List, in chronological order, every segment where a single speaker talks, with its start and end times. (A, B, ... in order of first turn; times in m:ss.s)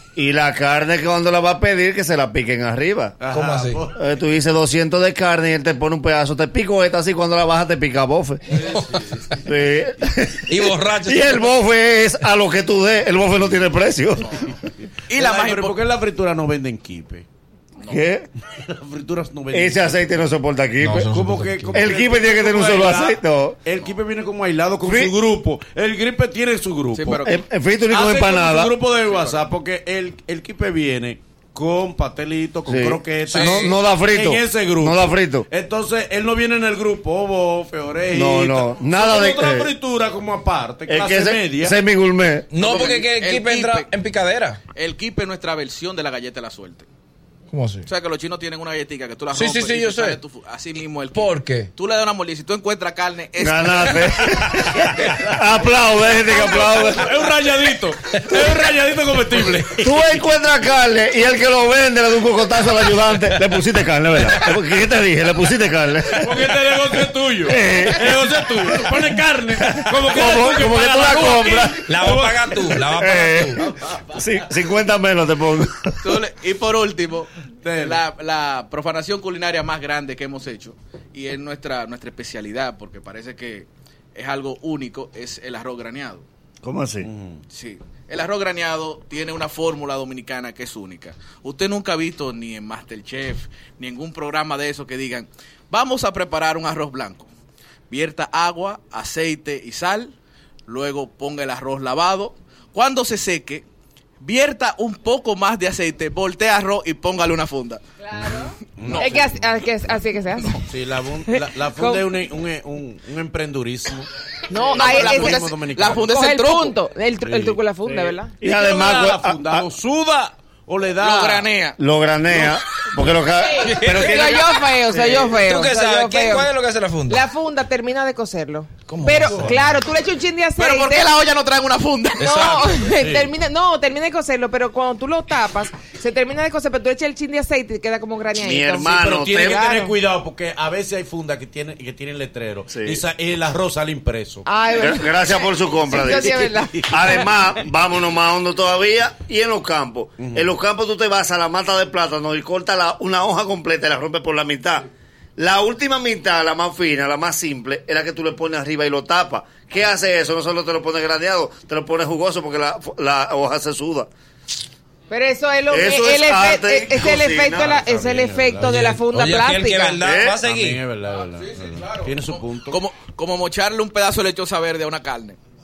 0:00.2-0:03.2 A
0:03.2-0:04.2 B
0:03.3-0:03.8 C
0:04.0-0:08.6 A
0:08.5-0:09.4 B
0:08.6-0:09.1 C
0:09.4-0:14.5 A
0:10.5-0:11.5 C
0:15.1-0:15.8 D
0:15.1-0:17.3 B
0:17.8-0:18.0 D
0:17.9-0:18.3 A
0:18.4-0:20.1 B
0:19.5-0:21.1 A
0:20.8-0:21.9 C
0:21.0-0:27.2 B
0:21.7-0:23.6 A
0:24.8-0:25.1 A
0:26.9-0:27.4 D
0:27.2-0:28.8 A
0:27.9-0:41.8 B
0:28.9-0:29.4 D
0:32.7-0:35.5 A
0:33.3-0:33.7 C
0:38.1-0:39.7 A
0:40.9-0:42.5 A
0:42.5-0:44.6 C
0:42.6-0:43.9 D
0:44.7-0:46.9 D
0:47.5-0:47.9 C
0:47.9-0:54.4 D
0:49.3-0:50.2 C
0:51.1-0:51.7 C
0:53.4-0:57.2 A
0:54.6-1:00.2 B
0:58.3-0:58.7 C
0:59.8-1:11.9 A
1:02.7-1:03.5 B
1:04.2-1:04.5 B
1:06.2-1:14.0 B
1:11.9-1:13.6 C
1:13.0-1:16.1 A
1:16.0-1:26.3 D
1:17.6-1:18.0 B
1:26.6-1:27.1 A
1:27.0-1:27.4 B
1:27.5-1:37.3 D
1:37.9-1:40.2 D
1:40.7-1:43.6 D
1:44.2-1:47.8 D
1:48.0-1:50.6 E
1:48.8-1:49.4 B
1:48.8-1:49.2 D
1:50.6-1:54.1 B
1:51.3-1:52.1 E
1:54.5-1:58.3 E
1:54.6-1:56.8 D
1:54.7-1:56.1 B
1:57.2-1:57.6 B
1:57.8-1:59.7 A
1:58.4-2:01.5 B
2:01.0-2:01.8 D
2:01.8-2:04.4 A
2:03.6-2:06.5 E
2:03.6-2:07.2 C
2:07.1-2:11.2 E
2:08.9-2:09.5 C
2:09.2-2:09.6 B
2:10.6-2:12.5 D
2:12.2-2:20.0 E
2:12.2-2:12.7 C
2:13.0-2:13.3 B
2:18.4-2:19.6 A
2:18.9-2:24.5 B
2:22.7-2:23.0 A
2:24.4-2:27.2 E
2:24.7-2:34.9 A
2:26.0-2:27.3 B
2:30.2-2:30.5 B
2:35.4-2:44.1 A
2:45.1-2:50.0 E
2:45.7-2:47.7 A
2:47.5-2:48.9 B
2:48.7-2:50.8 C
2:50.0-2:50.4 A
2:50.4-2:52.8 B
2:52.3-2:55.4 D